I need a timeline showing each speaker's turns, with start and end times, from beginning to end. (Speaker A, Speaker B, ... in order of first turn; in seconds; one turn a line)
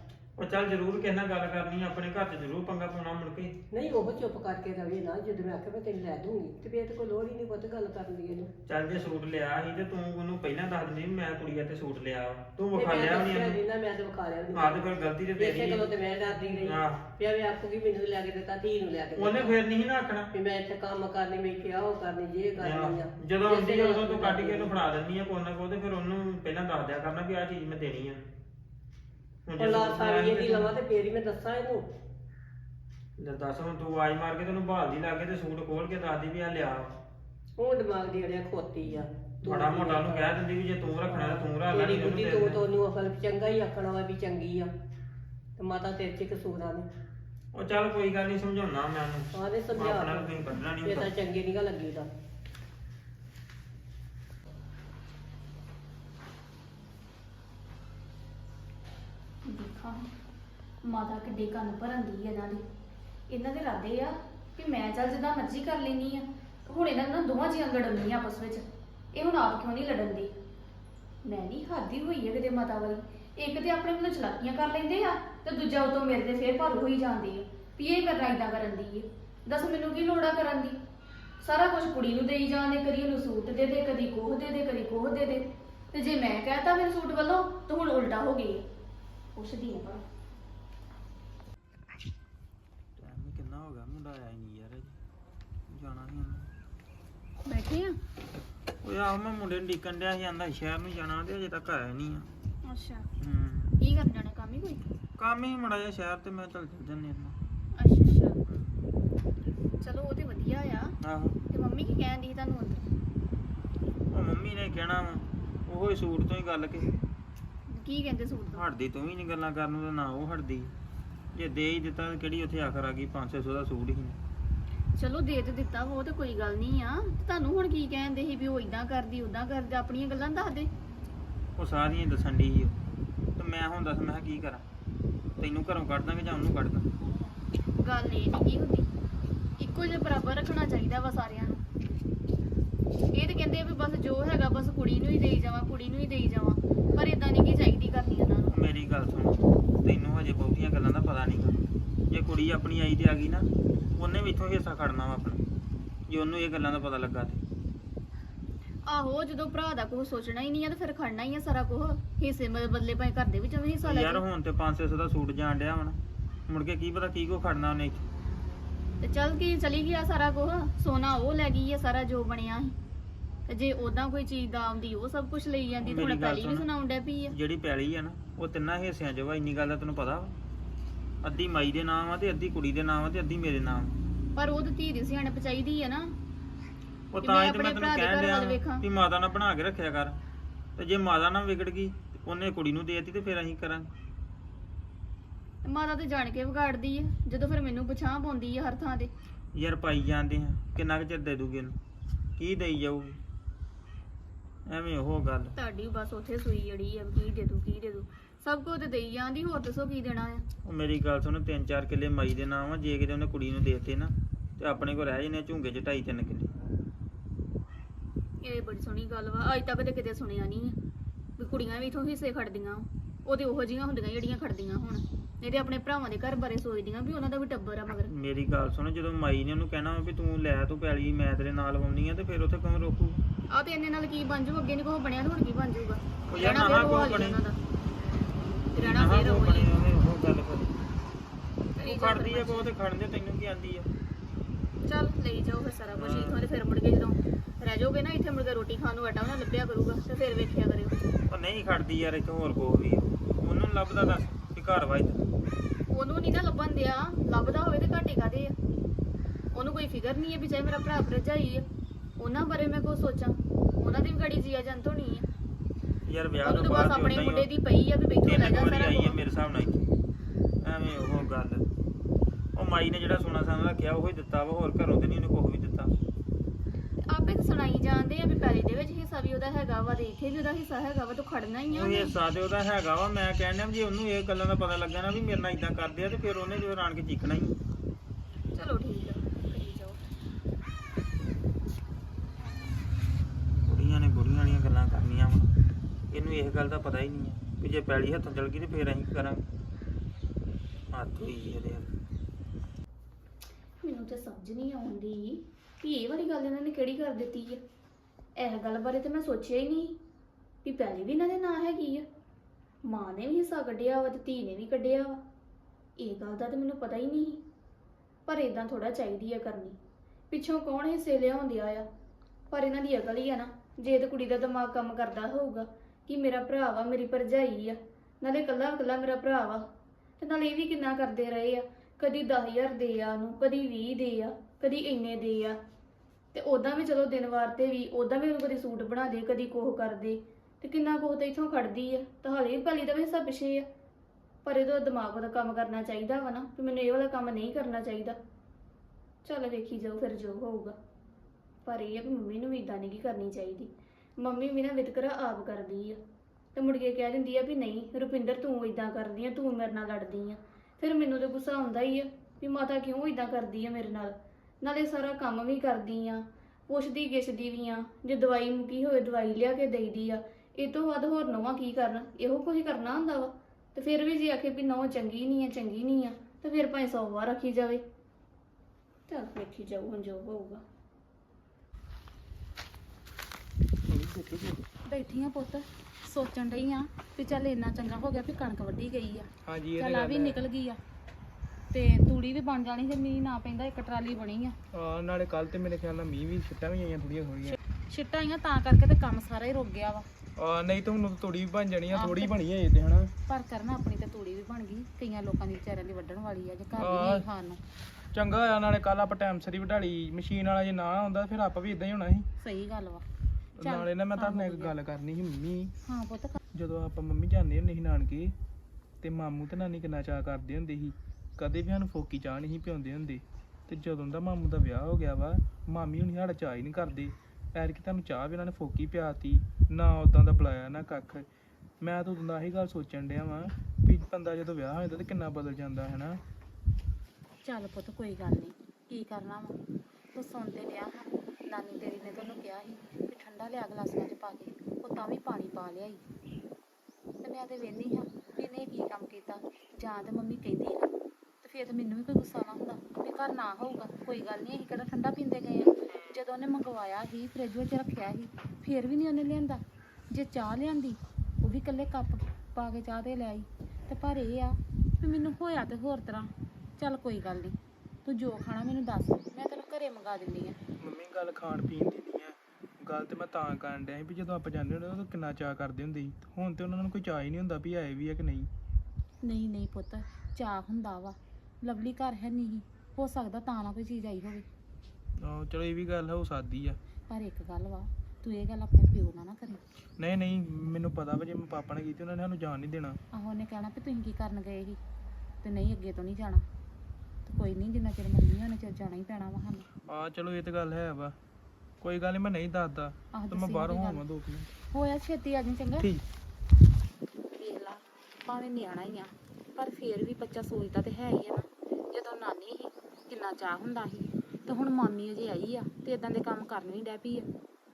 Speaker A: 0.4-3.5
Speaker B: 3.7-8.5
Speaker A: 8.7-13.6
Speaker B: 12.7-19.5
Speaker A: 14.5-17.0
Speaker A: 19.1-20.3
Speaker B: 20.3-24.7
Speaker A: 22.6-28.2
Speaker A: 29.5-30.7
Speaker B: 29.6-31.8
Speaker A: 33.2-36.9
Speaker B: 37.6-40.4
Speaker A: 39.4-42.6
Speaker B: 41.0-44.7
Speaker B: 45.6-46.9
Speaker A: 47.5-51.1
Speaker B: 49.3-52.1
Speaker C: 59.4-60.1
Speaker C: 60.8-62.6
Speaker C: 63.3-70.3
Speaker C: 71.2-80.8
Speaker C: 81.4-88.6
Speaker C: 89.3-90.0
Speaker A: 93.0-95.0
Speaker A: 95.7-96.5
Speaker C: 97.5-97.9
Speaker A: 98.8-102.3
Speaker C: 102.7-103.1
Speaker A: 103.2-103.7
Speaker C: 103.8-104.9
Speaker A: 105.2-107.3
Speaker C: 107.8-108.4
Speaker C: 109.8-110.9
Speaker A: 111.0-111.4
Speaker C: 111.5-112.8
Speaker A: 114.1-116.9
Speaker C: 117.7-118.6
Speaker A: 118.5-120.7
Speaker A: 121.3-124.2
Speaker C: 125.0-130.7
Speaker A: 131.6-132.7
Speaker A: 133.4-134.6
Speaker A: 135.4-136.9
Speaker C: 137.8-138.9
Speaker C: 139.6-141.6
Speaker C: 143.1-148.5
Speaker A: 148.5-151.6
Speaker A: 152.1-155.4
Speaker A: 156.1-157.4
Speaker C: 158.8-164.2
Speaker A: 163.8-168.0
Speaker C: 169.0-172.8
Speaker C: 173.5-177.3
Speaker A: 175.8-176.7
Speaker A: 177.3-180.3
Speaker A: 181.2-184.0
Speaker C: 184.3-186.1
Speaker A: 187.1-190.2
Speaker C: 187.2-188.8
Speaker A: 190.8-193.9
Speaker C: 195.6-199.1
Speaker A: 199.5-201.8
Speaker A: 202.4-203.2
Speaker A: 204.7-205.5
Speaker C: 205.6-210.5
Speaker A: 210.6-216.5
Speaker C: 218.4-220.8
Speaker C: 221.4-228.1
Speaker A: 228.1-233.2
Speaker C: 233.5-237.6
Speaker A: 236.3-237.4
Speaker C: 238.7-239.7
Speaker A: 238.7-240.7
Speaker C: 241.8-242.7
Speaker A: 241.8-243.9
Speaker C: 244.8-251.0
Speaker A: 245.9-246.4
Speaker A: 251.3-255.2
Speaker C: 255.9-258.5
Speaker C: 259.5-261.6
Speaker C: 262.2-265.3
Speaker A: 266.1-267.5
Speaker C: 266.4-269.2
Speaker A: 268.2-269.9
Speaker A: 270.6-271.6
Speaker A: 272.6-275.9
Speaker C: 277.1-282.1
Speaker A: 281.7-287.6
Speaker C: 288.5-290.0
Speaker A: 293.7-295.5
Speaker A: 296.1-299.4
Speaker A: 300.9-301.9
Speaker C: 303.8-307.6
Speaker C: 308.4-310.0
Speaker C: 310.6-312.0
Speaker C: 312.8-315.2
Speaker C: 316.0-317.4
Speaker C: 318.2-319.8
Speaker C: 320.3-321.9
Speaker C: 322.5-329.6
Speaker C: 330.2-335.6
Speaker C: 336.3-343.7
Speaker C: 344.4-348.2
Speaker C: 349.2-350.8
Speaker C: 351.6-356.0
Speaker C: 356.6-377.8
Speaker C: 379.1-380.6
Speaker D: 383.9-384.6
Speaker E: 384.9-390.8
Speaker D: 389.5-390.4
Speaker E: 391.7-394.5
Speaker D: 394.7-397.6
Speaker E: 397.4-400.1
Speaker D: 400.4-403.1
Speaker E: 401.9-402.3
Speaker E: 403.3-407.6
Speaker D: 406.8-407.2
Speaker D: 408.1-412.2
Speaker E: 412.4-413.0
Speaker D: 413.6-415.7
Speaker E: 413.6-414.7
Speaker E: 415.9-416.4
Speaker D: 416.5-418.3
Speaker D: 419.0-431.2
Speaker D: 431.8-436.2
Speaker E: 437.4-439.6
Speaker E: 440.1-446.0
Speaker E: 447.2-470.6
Speaker D: 470.8-478.5
Speaker E: 479.2-484.4
Speaker D: 485.2-486.8
Speaker E: 487.1-489.6
Speaker D: 490.0-493.0
Speaker E: 493.1-494.8
Speaker E: 495.4-496.4
Speaker E: 497.2-499.7
Speaker D: 499.9-501.1
Speaker D: 501.8-504.5
Speaker E: 503.1-504.0
Speaker E: 504.7-505.9
Speaker E: 507.4-517.3